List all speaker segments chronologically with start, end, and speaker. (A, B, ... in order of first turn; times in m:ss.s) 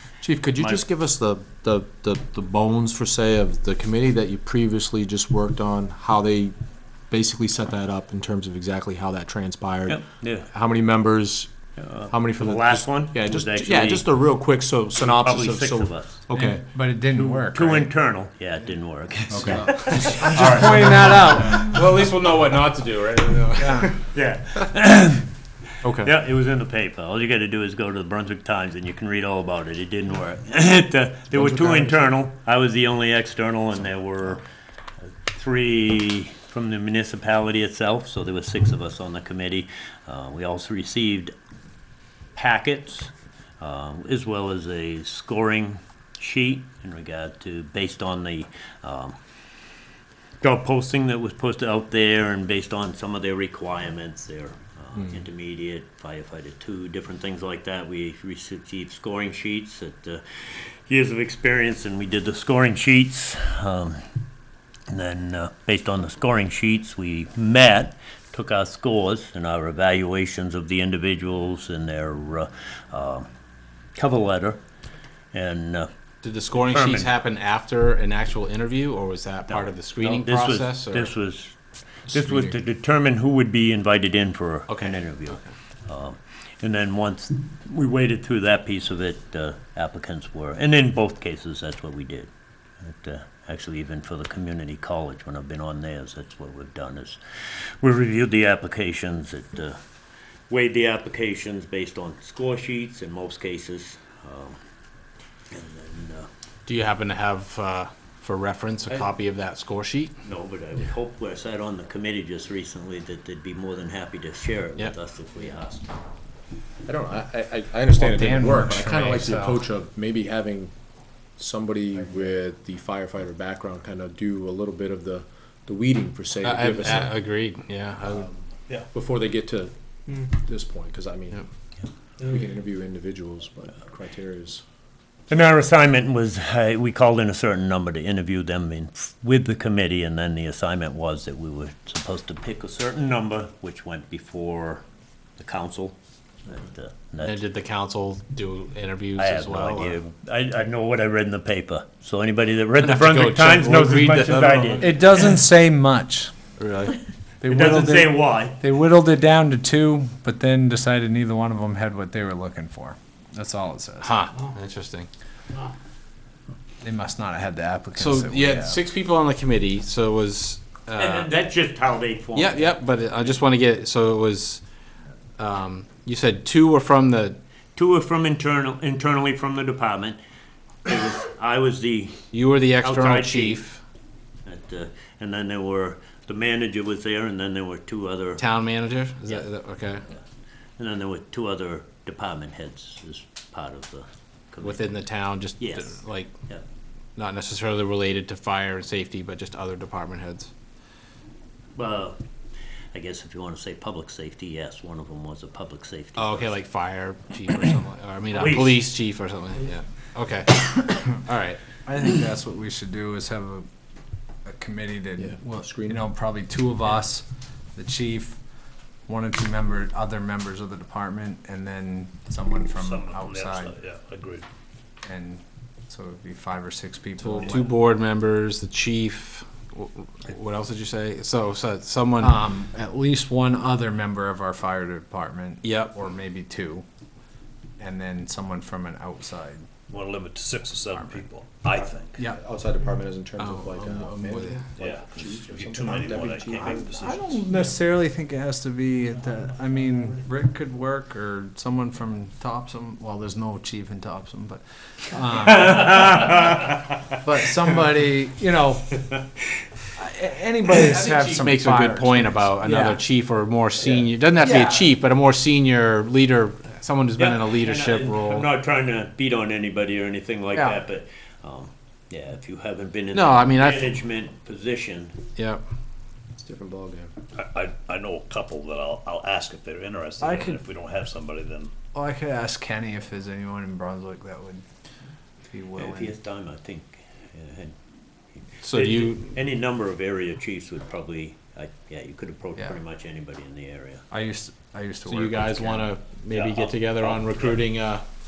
0:00.2-0:06.5 A
0:00.6-0:00.8 B
0:07.1-0:11.5 A
0:09.9-0:10.5 B
0:11.8-0:14.0 B
0:12.1-0:16.6 A
0:15.0-0:16.3 B
0:16.3-0:17.9 C
0:17.1-0:21.1 B
0:19.3-0:21.8 C
0:19.3-0:23.9 A
0:21.5-0:23.9 D
0:24.1-0:25.3 B
0:25.8-0:26.1 A
0:25.8-0:34.4 B
0:31.3-0:32.0 A
0:35.2-0:41.3 B
0:42.3-0:49.2 B
0:50.4-1:04.0 B
1:04.9-1:13.3 B
1:13.9-1:14.6 B
1:15.3-1:15.9 B
1:16.2-1:21.1 D
1:16.5-1:17.1 B
1:19.5-1:32.3 B
1:22.1-1:22.5 A
1:24.7-1:25.4 D
1:32.8-1:39.8 B
1:40.5-1:44.6 B
1:45.5-1:46.3 B
1:46.7-1:50.1 D
1:50.2-1:55.9 B
1:56.8-2:00.7 A
1:57.9-1:59.6 C
2:01.4-2:07.2 A
2:06.4-2:08.3 D
2:08.9-2:11.4 A
2:12.2-2:14.6 A
2:15.3-2:24.8 B
2:25.4-2:27.4 B
2:27.2-2:30.0 D
2:29.2-2:35.0 B
2:32.8-2:35.1 D
2:34.8-2:36.5 C
2:36.6-2:37.0 D
2:37.4-2:44.2 C
2:37.4-2:38.6 B
2:44.0-2:45.1 D
2:46.8-2:48.8 C
2:48.0-2:51.3 D
2:51.0-2:53.3 B
2:52.3-2:54.6 D
2:55.4-2:57.4 D
2:57.8-3:00.2 B
3:00.8-3:02.2 B
3:02.3-3:03.8 D
3:02.8-3:03.6 B
3:04.4-3:08.5 B
3:08.4-3:10.0 D
3:10.8-3:14.9 B
3:14.6-3:16.3 D
3:15.6-3:16.6 B
3:17.2-3:20.5 D
3:21.8-3:22.2 B
3:22.9-3:26.6 B
3:26.2-3:31.6 D
3:28.3-3:28.8 B
3:31.8-3:33.6 C
3:34.4-3:38.4 C
3:35.2-3:36.0 A
3:39.1-3:43.8 C
3:42.8-3:44.4 E
3:45.0-3:47.7 C
3:47.2-3:52.4 D
3:52.2-3:56.8 C
3:55.6-3:55.9 D
3:57.8-3:59.6 C
3:59.9-4:02.0 E
4:00.9-4:01.3 C
4:01.7-4:06.8 A
4:03.4-4:04.7 D
4:04.8-4:07.4 E
4:06.0-4:07.2 B
4:06.5-4:16.3 C
4:15.5-4:16.8 B
4:17.2-4:19.0 C
4:19.9-4:23.0 C
4:20.8-4:28.5 D
4:24.4-4:24.8 C
4:27.2-4:35.2 B
4:30.6-4:30.8 C
4:33.1-4:33.9 D
4:35.4-4:35.6 D
4:36.4-4:37.1 A
4:37.4-4:41.7 E
4:40.2-4:40.6 C
4:41.9-4:44.6 C
4:45.5-4:46.2 C
4:45.8-4:47.8 B
4:48.3-4:54.0 B
4:48.6-4:49.3 D
4:54.1-4:55.9 C
4:55.1-4:58.0 D